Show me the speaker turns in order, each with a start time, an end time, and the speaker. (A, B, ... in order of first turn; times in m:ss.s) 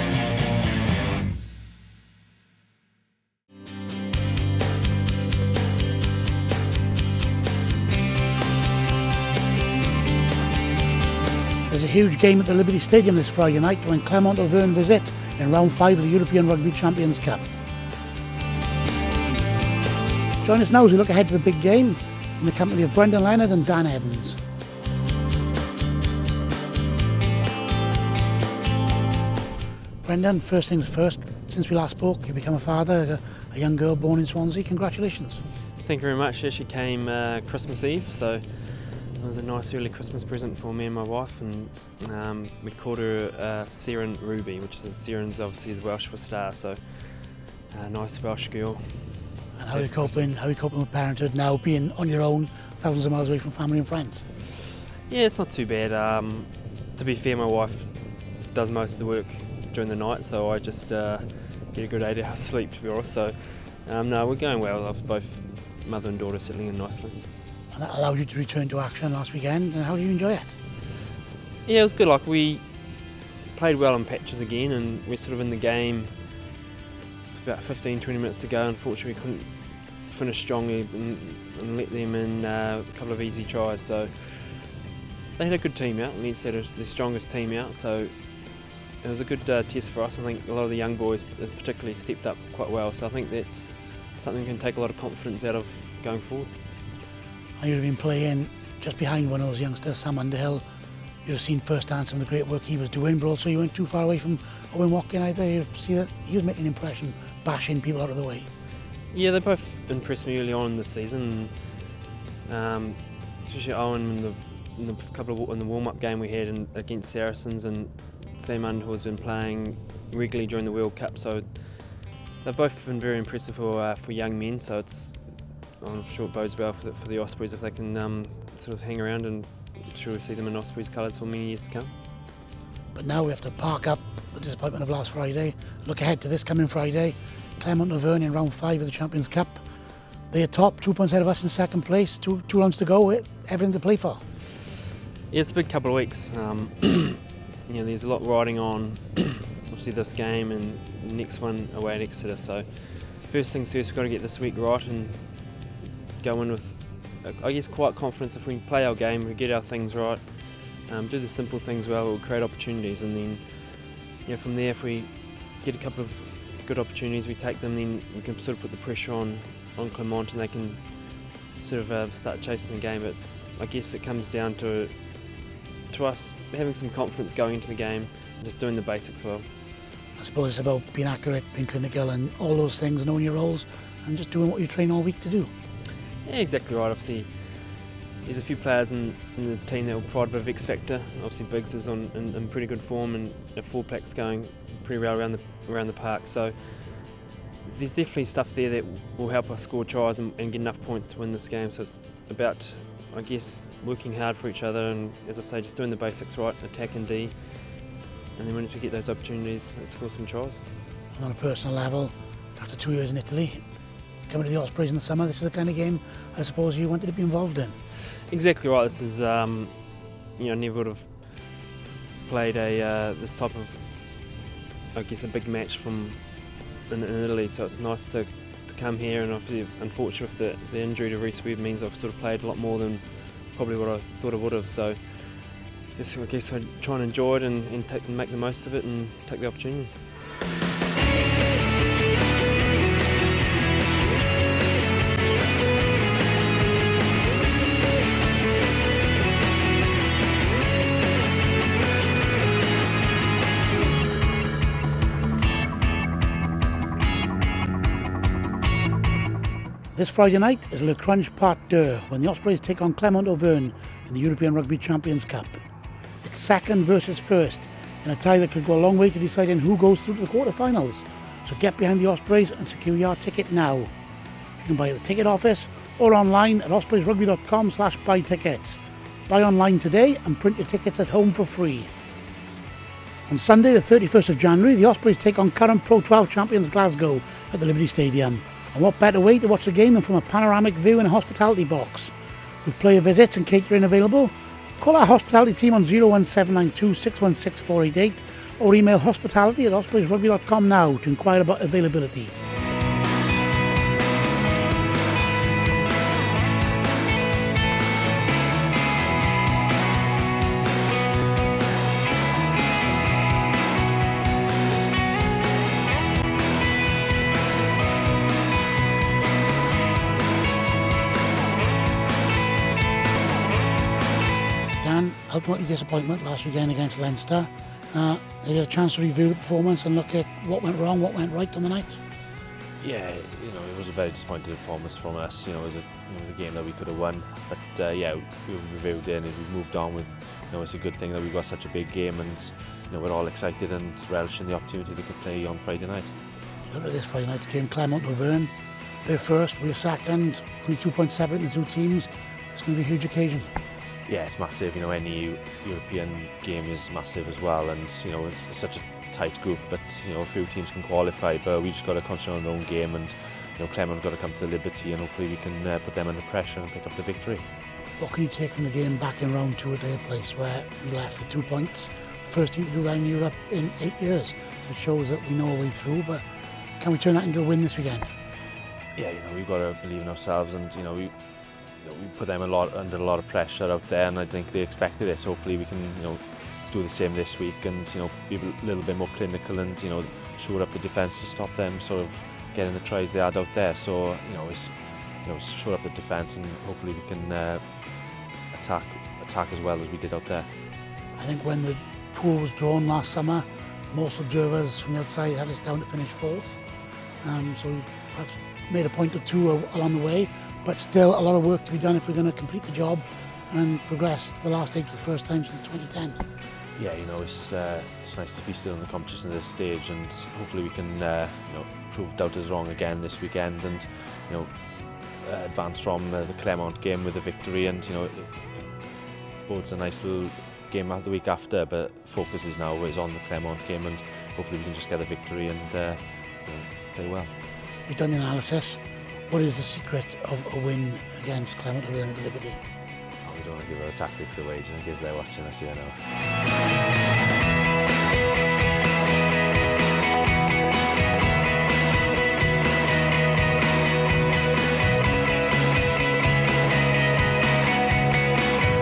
0:11.7-0:17.4 A
0:20.4-0:24.4 A
0:30.0-0:35.4 A
0:35.8-0:50.4 B
0:49.6-0:54.2 A
0:55.1-1:07.3 B
1:07.7-1:10.6 A
1:11.6-1:12.8 B
1:13.5-1:16.5 B
1:17.3-1:24.8 B
1:25.4-1:36.5 B
1:37.6-1:40.6 A
1:41.2-1:48.5 A
1:49.1-2:11.9 B
2:13.0-2:19.6 A
2:20.3-2:24.2 A
2:25.3-2:59.5 B
3:00.2-3:05.5 A
3:06.2-3:30.6 B
3:31.1-3:33.6 A
3:34.3-3:37.8 A
3:38.2-3:41.7 B
3:42.2-3:44.4 B
3:44.9-4:00.0 B
4:20.0-4:25.6 A
4:26.2-4:33.9 A
4:34.6-4:41.9 A
4:43.3-4:52.1 A
4:52.6-5:02.3 A
5:24.8-5:32.0 A
5:32.8-5:46.1 C
5:46.7-5:48.5 A
5:49.0-5:53.5 A
5:54.1-6:07.4 C
6:08.0-6:16.2 A
6:16.8-6:18.1 A
6:19.0-6:40.5 C
6:41.2-6:46.6 A
6:47.2-6:56.2 A
6:56.8-7:17.3 C
7:17.8-7:22.6 A
7:23.2-7:26.0 C